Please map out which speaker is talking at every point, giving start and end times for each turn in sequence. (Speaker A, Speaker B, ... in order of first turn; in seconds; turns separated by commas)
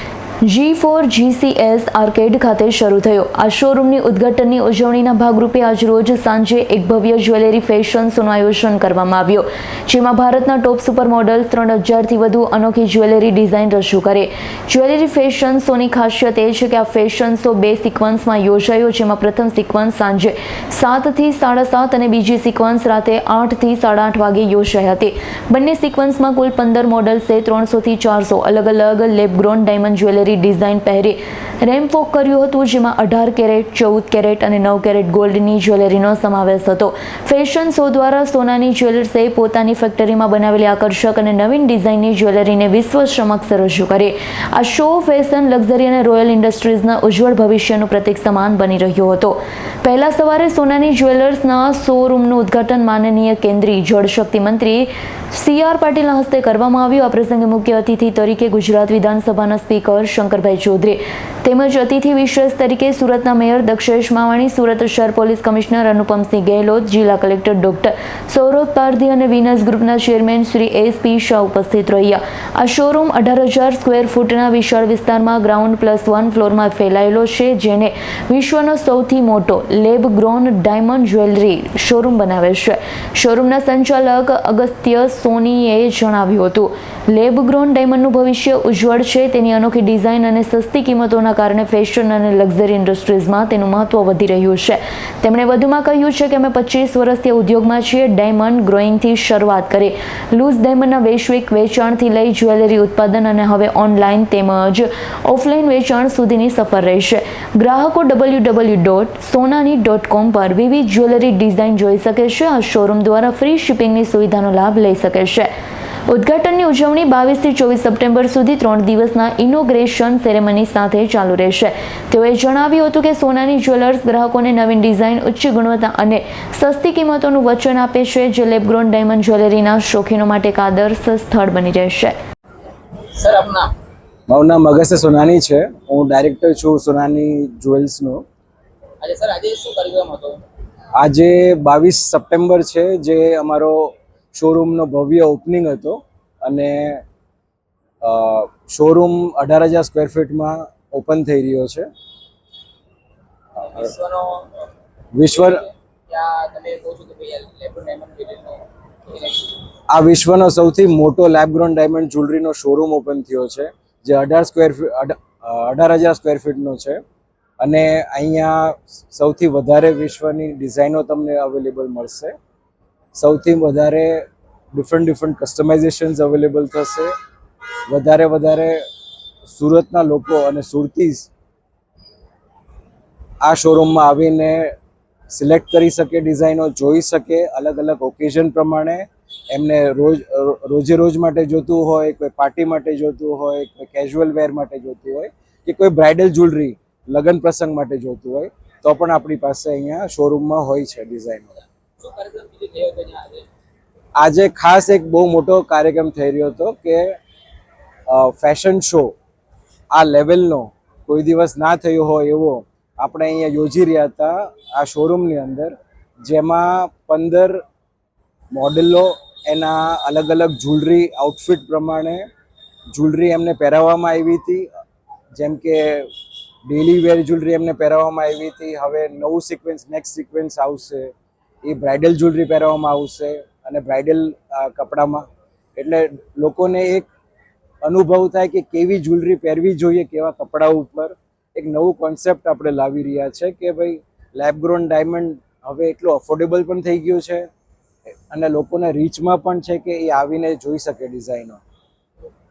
Speaker A: 0.4-115.5, Speaker A: 116.1-132.2, Speaker B: 133.1-133.7, Speaker C: 134.3-138.2, Speaker B: 139.0-140.4, Speaker C: 140.9-147.0, Speaker C: 148.0-151.9, Speaker B: 153.6-154.4, Speaker C: 155.1-155.6, Speaker B: 155.4-159.6, Speaker C: 159.9-167.0, Speaker C: 167.6-172.3, Speaker C: 173.1-177.1, Speaker C: 177.9-178.8, Speaker C: 179.5-181.3, Speaker C: 183.4-184.7, Speaker C: 185.3-201.6, Speaker B: 202.0-203.4, Speaker C: 204.2-207.2, Speaker C: 208.1-209.1, Speaker C: 209.9-217.6, Speaker C: 218.5-222.3, Speaker C: 222.9-224.7, Speaker C: 225.3-226.1, Speaker C: 226.7-231.1, Speaker C: 231.6-237.1, Speaker C: 237.8-247.5, Speaker C: 248.3-251.6